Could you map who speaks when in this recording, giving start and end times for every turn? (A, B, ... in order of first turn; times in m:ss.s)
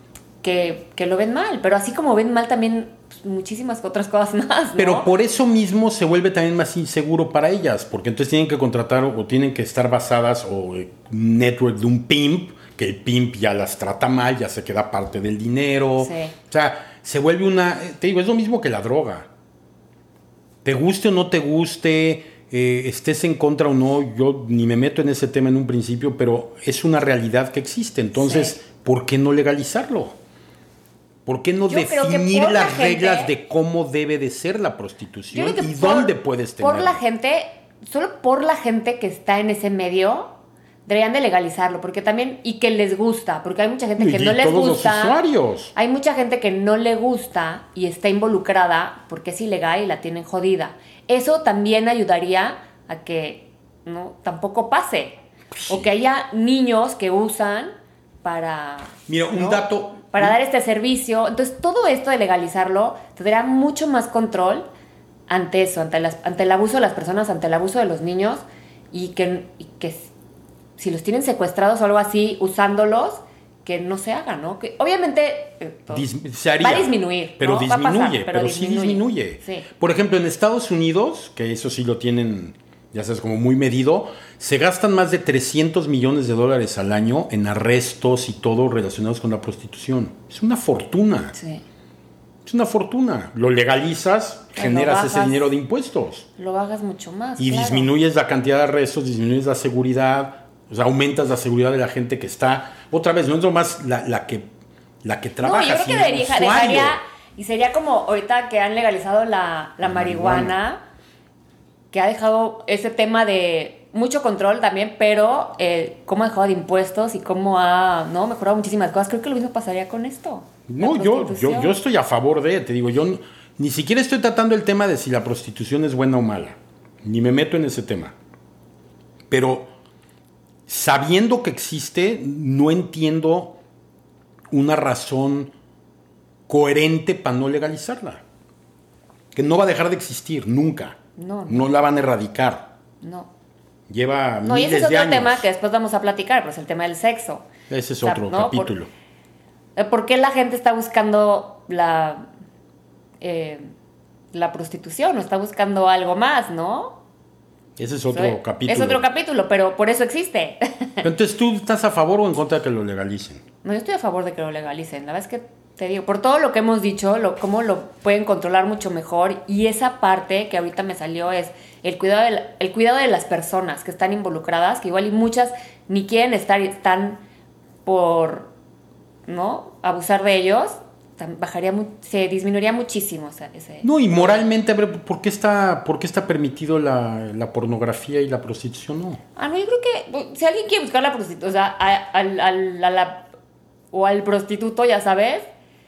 0:00.4-0:05.1 A
0:04.8-0:19.3 B
0:16.0-0:16.3 A
0:20.6-0:30.2 B
0:28.1-0:28.6 A
0:31.2-0:37.0 B
0:31.7-0:33.3 A
0:35.3-0:40.3 A
0:40.9-0:45.2 A
0:44.0-0:45.7 B
0:45.7-0:55.2 A
0:55.5-0:55.9 B
0:55.7-0:57.7 A
0:58.2-1:04.7 A
0:59.1-1:00.4 B
1:05.3-1:10.1 A
1:10.8-1:16.0 A
1:15.9-1:31.3 B
1:16.6-1:19.7 A
1:31.3-1:31.6 A
1:32.4-1:36.3 B
1:34.6-1:35.4 A
1:36.4-1:37.9 A
1:37.4-1:44.5 B
1:45.0-1:47.0 B
1:45.4-1:50.8 A
1:49.8-1:50.6 B
1:51.9-2:01.8 A
2:00.7-2:08.1 B
2:09.3-2:09.7 B
2:10.7-2:13.6 B
2:14.5-2:15.5 B
2:16.5-2:18.2 B
2:19.3-2:21.0 B
2:21.2-2:21.7 A
2:21.5-2:22.7 B
2:23.0-2:23.3 A
2:23.9-2:25.5 B
2:24.4-2:27.5 A
2:27.7-2:28.9 B
2:28.0-2:28.7 A
2:29.8-2:32.3 A
2:33.2-2:33.7 A
2:34.3-2:37.0 A
2:37.8-2:39.0 B
2:38.1-2:41.0 A
2:41.0-2:43.4 B
2:43.6-2:57.2 A
2:57.8-2:58.5 A
2:59.3-3:04.4 A
3:03.8-3:09.2 B
3:09.4-3:13.3 A
3:13.9-3:15.4 A